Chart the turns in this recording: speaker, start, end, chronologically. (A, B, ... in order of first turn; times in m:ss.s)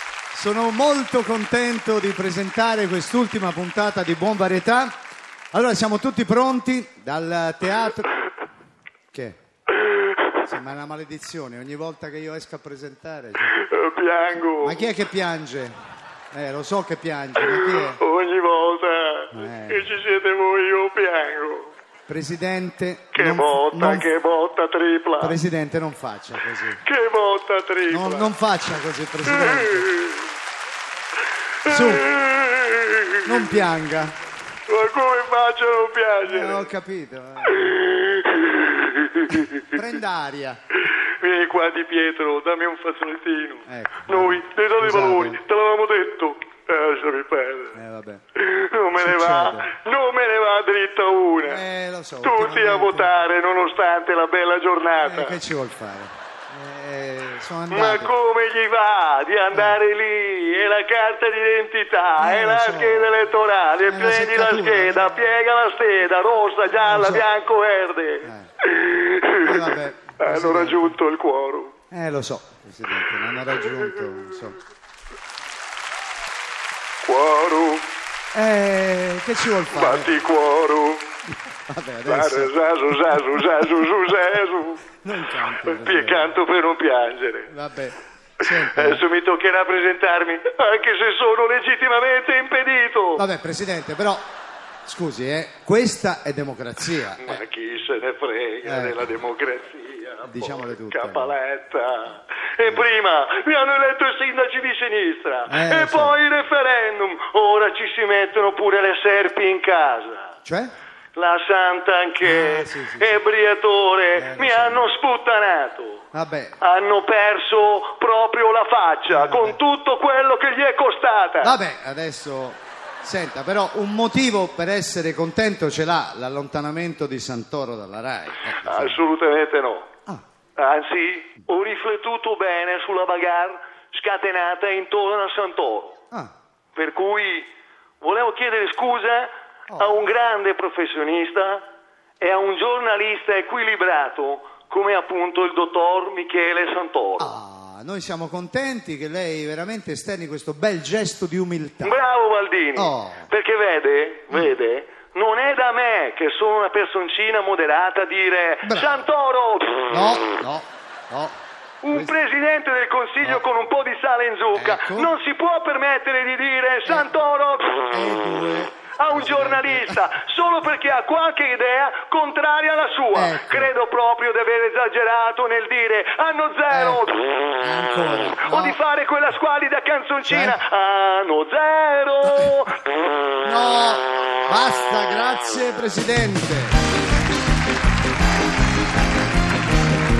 0:00.3-0:05.0 A
0:05.5-0:08.2 A
0:09.1-0:09.4 A
0:09.9-0:10.2 B
0:10.3-0:13.6 A
0:13.5-0:14.9 B
0:14.6-0:15.7 A
0:16.3-0:18.0 A
0:17.4-0:21.7 B
0:19.3-0:19.9 A
0:22.1-0:24.1 A
0:23.1-0:25.4 B
0:25.2-0:26.8 A
0:26.8-0:28.3 B
0:27.9-0:29.9 A
0:29.3-0:30.3 B
0:31.6-0:32.1 A
0:31.7-0:33.7 B
0:33.2-0:34.2 A
0:34.7-0:36.7 B
0:36.2-0:38.3 A
0:37.5-0:39.8 B
0:39.3-0:40.6 A
0:40.9-0:47.8 B
0:43.7-0:45.4 A
0:47.7-0:48.2 A
0:48.4-0:51.6 B
0:49.0-0:49.7 A
0:51.4-0:53.1 A
0:52.2-0:55.4 B
0:55.0-0:58.1 A
0:57.7-1:11.7 B
0:59.5-0:59.8 A
1:02.2-1:03.3 A
1:03.9-1:05.4 A
1:06.8-1:07.3 A
1:08.2-1:08.5 A
1:09.4-1:11.0 A
1:11.9-1:14.6 A
1:17.0-1:17.9 B
1:18.3-1:20.2 A
1:19.7-1:21.1 B
1:21.5-1:22.5 A
1:22.1-1:27.5 B
1:25.0-1:26.4 A
1:27.5-1:29.0 A
1:28.4-1:33.2 B
1:33.2-1:34.2 A
1:34.9-1:37.4 A
1:37.2-1:50.4 B
1:38.6-1:39.1 A
1:40.2-1:41.4 A
1:45.5-1:46.2 A
1:50.4-1:50.7 A
1:51.2-1:56.1 B
1:52.2-1:53.2 A
1:54.2-1:54.9 A
1:56.1-1:56.6 A
1:56.6-2:01.6 B
1:59.1-1:59.6 A
2:01.4-2:09.0 A
2:08.5-2:09.9 B
2:10.6-2:16.0 B
2:16.8-2:17.5 B
2:18.0-2:21.7 B
2:19.7-2:20.1 A
2:22.2-2:27.3 B
2:27.2-2:32.0 A
2:31.8-2:40.2 B
2:32.8-2:33.3 A
2:38.6-2:39.0 A
2:39.9-2:41.4 A
2:41.8-2:48.2 B
2:44.6-2:45.2 A
2:46.9-2:47.1 A
2:47.9-2:50.1 A
2:49.0-2:57.6 B
2:53.1-2:53.7 A
2:56.7-2:57.0 A
2:57.6-2:58.8 A
2:58.4-3:02.9 B
3:00.3-3:00.6 A
3:03.4-3:06.8 A